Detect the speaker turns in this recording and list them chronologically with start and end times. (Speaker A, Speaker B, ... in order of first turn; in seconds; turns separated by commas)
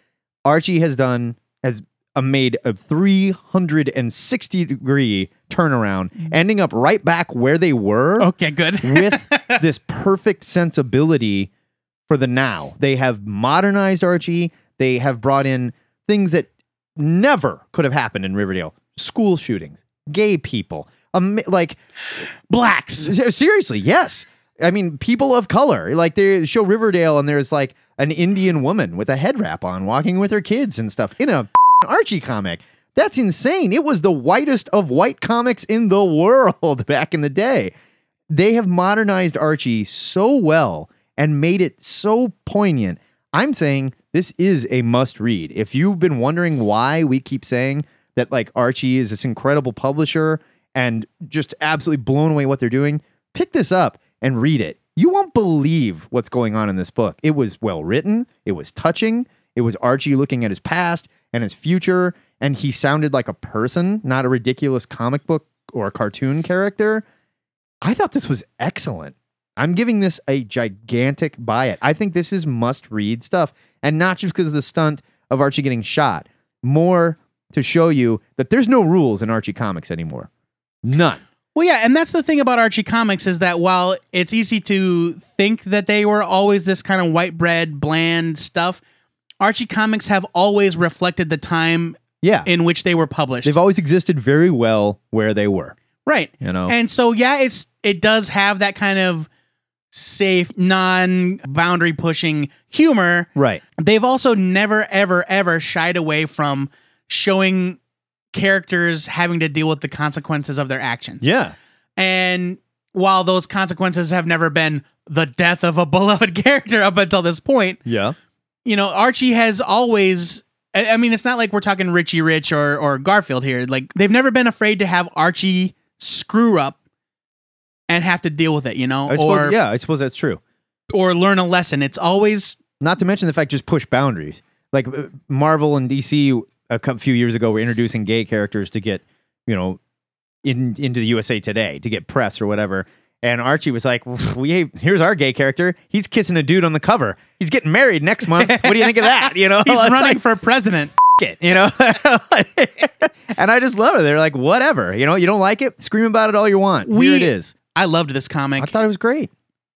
Speaker A: 0.5-8.3, Speaker B: 8.2-9.6, Speaker A: 8.8-11.5, Speaker A: 12.1-21.8, Speaker B: 22.5-23.1, Speaker A: 23.0-37.7, Speaker A: 38.3-67.0, Speaker A: 67.8-80.3, Speaker A: 80.8-81.2, Speaker B: 81.5-88.8, Speaker B: 89.4-93.5, Speaker A: 92.2-92.5, Speaker A: 93.4-95.8, Speaker B: 96.1-99.3, Speaker A: 96.4-96.8, Speaker B: 99.9-107.8, Speaker A: 103.4-103.6, Speaker B: 108.3-111.3, Speaker A: 111.2-111.5, Speaker B: 112.0-117.8, Speaker A: 117.9-118.2, Speaker B: 118.7-126.8, Speaker B: 127.9-129.6, Speaker A: 129.1-130.4, Speaker B: 130.9-132.6, Speaker A: 132.8-139.8, Speaker A: 140.4-150.2, Speaker B: 148.3-150.9, Speaker A: 151.2-157.5, Speaker B: 156.8-158.7, Speaker A: 158.6-159.3